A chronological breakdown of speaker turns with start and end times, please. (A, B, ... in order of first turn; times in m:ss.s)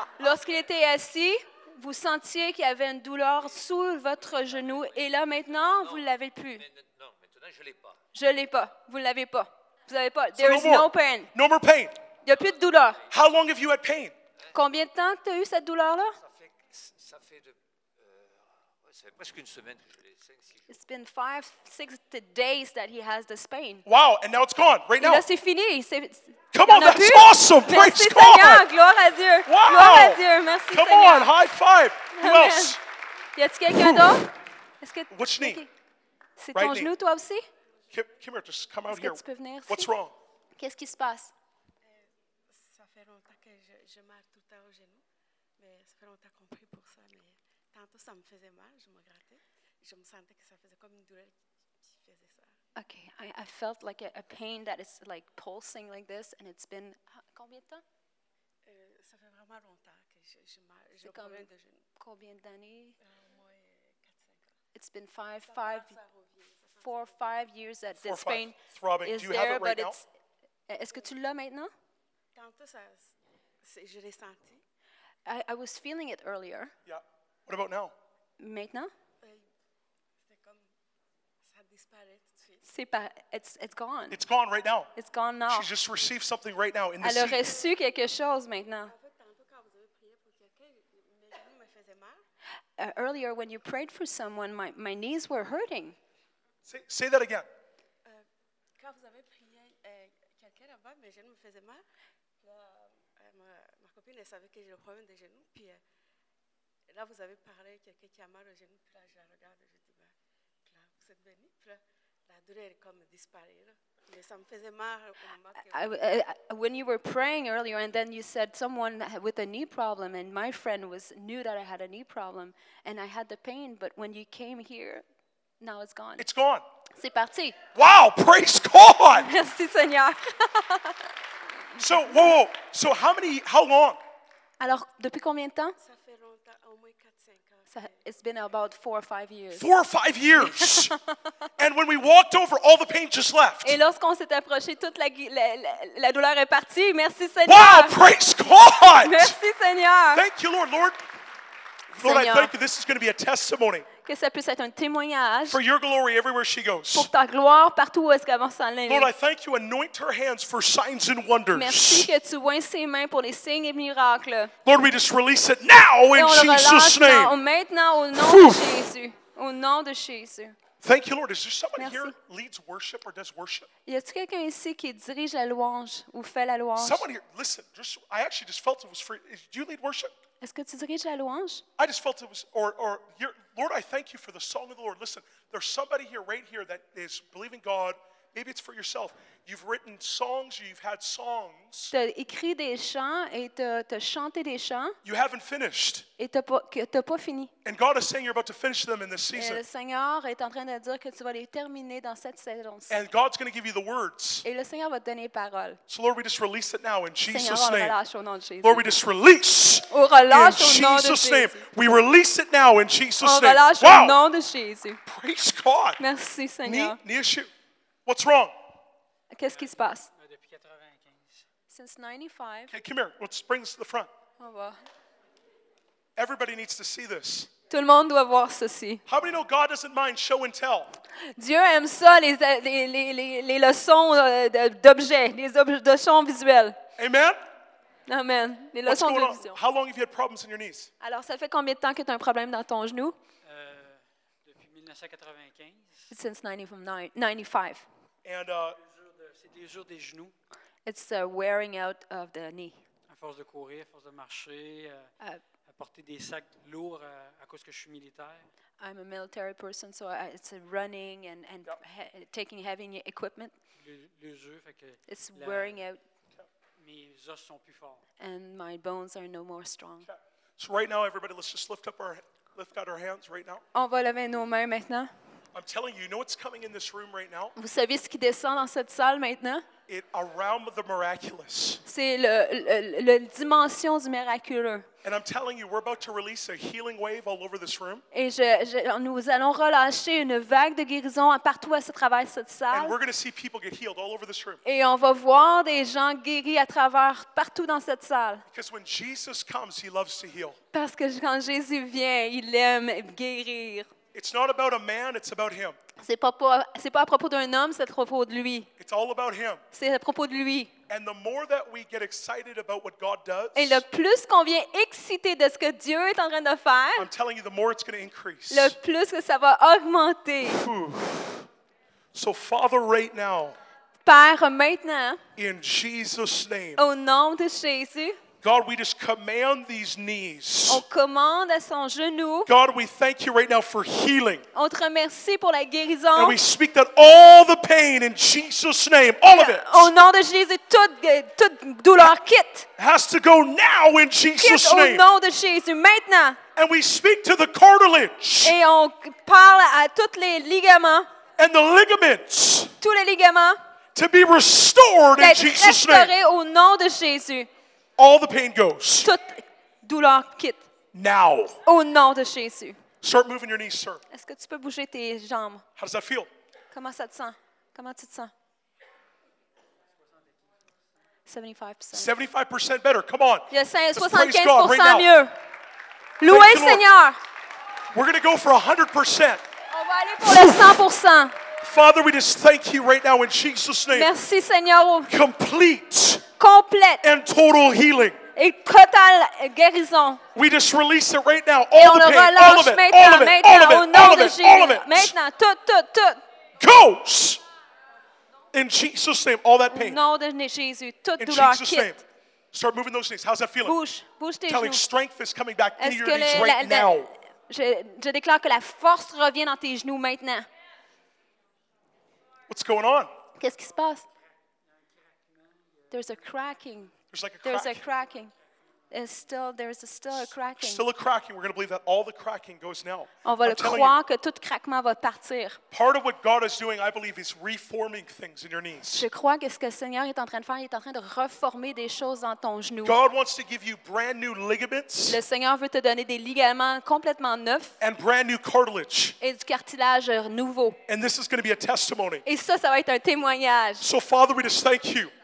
0:00.2-0:06.6 A
0:04.2-0:08.0 B
0:08.1-0:11.3 A
0:10.4-0:11.9 C
0:12.2-0:13.0 A
0:12.3-0:13.0 B
0:13.1-0:14.1 C
0:14.5-0:16.2 A
0:16.2-0:20.7 B
0:20.7-0:23.8 A
0:23.8-0:25.2 C
0:25.0-0:31.3 A
0:26.5-0:28.6 C
0:29.4-0:32.8 C
0:32.2-0:32.8 A
0:33.4-0:35.7 A
0:33.7-0:34.2 C
0:35.1-0:35.6 C
0:36.4-0:37.4 A
0:36.5-0:36.9 C
0:37.9-0:40.1 C
0:38.9-0:39.9 A
0:40.6-0:41.3 A
0:41.8-0:45.0 D
0:45.6-0:52.6 D
0:52.8-0:57.8 A
0:58.6-1:01.8 D
1:01.0-1:01.5 A
1:02.0-1:03.0 A
1:03.0-1:04.6 D
1:04.7-1:06.0 A
1:05.4-1:07.3 D
1:06.8-1:10.0 A
1:08.0-1:10.0 C
1:10.7-1:11.7 A
1:12.3-1:14.6 D
1:15.2-1:16.7 A
1:16.8-1:17.9 C
1:18.4-1:18.9 A
1:20.2-1:20.7 D
1:21.4-1:22.6 D
1:22.6-1:24.2 A
1:24.1-1:24.9 C
1:25.0-1:25.7 A
1:25.5-1:27.4 C
1:27.0-1:28.9 A
1:28.8-1:32.2 D
1:32.8-1:36.0 A
1:36.6-1:37.5 C
1:38.0-1:41.8 D
1:42.4-1:45.8 D
1:46.9-1:50.1 D
1:50.6-1:56.0 D
1:55.7-2:05.0 A
2:05.6-2:06.2 A
2:06.2-2:06.6 C
2:07.0-2:07.6 A
2:07.7-2:09.3 C
2:09.1-2:11.0 A
2:11.8-2:14.0 C
2:14.6-2:15.8 A
2:15.8-2:18.0 D
2:17.7-2:19.7 A
2:19.5-2:20.9 C
2:20.4-2:21.0 A
2:21.6-2:23.8 C
2:23.6-2:28.0 A
2:27.4-2:29.4 C
2:29.0-2:30.2 A
2:30.1-2:31.0 C
2:32.0-2:33.9 C
2:32.0-2:32.5 A
2:34.0-2:35.6 A
2:35.5-2:37.1 C
2:36.9-2:39.1 A
2:38.9-2:42.1 C
2:41.5-2:44.5 A
2:44.6-2:47.3 C
2:46.1-2:50.6 A
2:48.1-2:48.8 C
2:50.8-2:53.7 C
2:51.8-2:52.1 A
2:53.8-2:57.0 A
2:56.8-3:00.1 C
3:00.4-3:01.6 A
3:01.8-3:11.9 C
3:11.9-3:15.0 A
3:15.0-3:16.0 C
3:16.2-3:17.5 A
3:17.6-3:19.6 C
3:19.3-3:23.0 A
3:22.9-3:24.4 C
3:24.4-3:25.8 A
3:25.9-3:27.9 C
3:27.3-3:28.8 A
3:28.6-3:34.2 C
3:29.9-3:31.6 A
3:33.2-3:35.0 A
3:35.0-3:36.0 C
3:36.0-3:37.0 A
3:36.6-3:37.5 C
3:38.0-3:38.5 C
3:39.3-3:40.1 A
3:39.5-3:41.4 E
3:41.7-3:42.7 A
3:42.7-3:44.1 C
3:44.4-3:44.8 A
3:46.2-3:47.5 C
3:47.7-3:49.0 A
3:49.1-3:50.9 C
3:51.4-3:56.8 A
3:57.0-3:57.4 C
3:58.1-3:59.6 A
3:58.8-4:00.9 C
4:01.0-4:03.2 A
4:03.4-4:06.1 E
4:06.1-4:07.8 A
4:08.2-4:08.8 C
4:08.8-4:10.3 E
4:10.8-4:12.8 A
4:13.1-4:15.1 E
4:15.6-4:18.5 E
4:18.8-4:23.5 A
4:23.8-4:25.8 E
4:25.1-4:26.0 A
4:26.8-4:28.0 E
4:28.2-4:30.1 A
4:30.0-4:33.6 C
4:33.7-4:35.1 A
4:35.5-4:37.5 C
4:37.6-4:39.6 A
4:39.9-4:41.8 C
4:41.8-4:44.8 A
4:45.0-4:48.0 C
4:48.1-4:53.0 A
4:52.7-4:54.6 C
4:54.6-4:58.4 A
4:58.5-5:00.6 C
5:00.7-5:03.9 A
5:04.1-5:05.8 C
5:06.0-5:08.7 A
5:08.8-5:09.6 C
5:09.7-5:10.7 A
5:10.9-5:13.8 C
5:13.5-5:17.1 A
5:17.0-5:18.7 C
5:18.5-5:20.6 A
5:20.4-5:21.4 C
5:22.1-5:23.6 C
5:24.0-5:25.2 A
5:25.4-5:26.8 C
5:26.8-5:28.2 A
5:28.4-5:30.8 C
5:30.7-5:32.5 A
5:32.4-5:34.4 C
5:34.5-5:36.4 A
5:36.1-5:39.9 C
5:39.3-5:42.7 A
5:42.8-5:45.0 C
5:44.4-5:46.4 A
5:46.6-5:48.6 C
5:48.4-5:51.1 A
5:51.4-5:52.7 C
5:52.8-5:53.6 A
5:53.9-5:56.1 C
5:55.2-5:57.5 A
5:58.0-5:59.1 C
5:59.0-6:00.6 A
6:00.9-6:01.6 C
6:01.6-6:02.8 A
6:03.0-6:04.0 C
6:04.1-6:05.6 A
6:05.8-6:06.3 C
6:06.7-6:08.3 A
6:11.3-6:12.1 A
6:11.9-6:15.1 C
6:13.5-6:15.3 A
6:16.2-6:17.2 A
6:16.3-6:16.8 C
6:17.9-6:19.4 C
6:19.7-6:21.3 A
6:20.2-6:20.8 C
6:21.6-6:24.1 C
6:23.9-6:25.1 A
6:25.1-6:26.2 C
6:26.4-6:27.0 A
6:27.0-6:28.2 C
6:28.4-6:30.2 A
6:30.3-6:35.1 C
6:31.7-6:36.2 A
6:36.6-6:37.4 C
6:38.5-6:40.0 C
6:39.7-6:42.0 A
6:41.2-6:42.0 C
6:42.5-6:43.8 C
6:43.6-6:44.8 A
6:44.5-6:47.1 C
6:45.8-6:50.5 A
6:52.5-6:53.1 C
6:53.4-6:54.0 A
6:54.7-6:56.0 E
6:55.9-6:56.9 A
6:57.1-6:57.8 C
6:57.4-6:58.3 A
6:58.9-7:00.8 A
7:00.1-7:04.0 C
7:03.2-7:05.6 A
7:05.7-7:09.0 C
7:08.9-7:13.0 A
7:12.8-7:15.2 C
7:15.1-7:17.7 A
7:17.8-7:19.1 C
7:19.2-7:20.8 A
7:20.9-7:22.2 C
7:22.2-7:23.8 A
7:23.8-7:25.1 C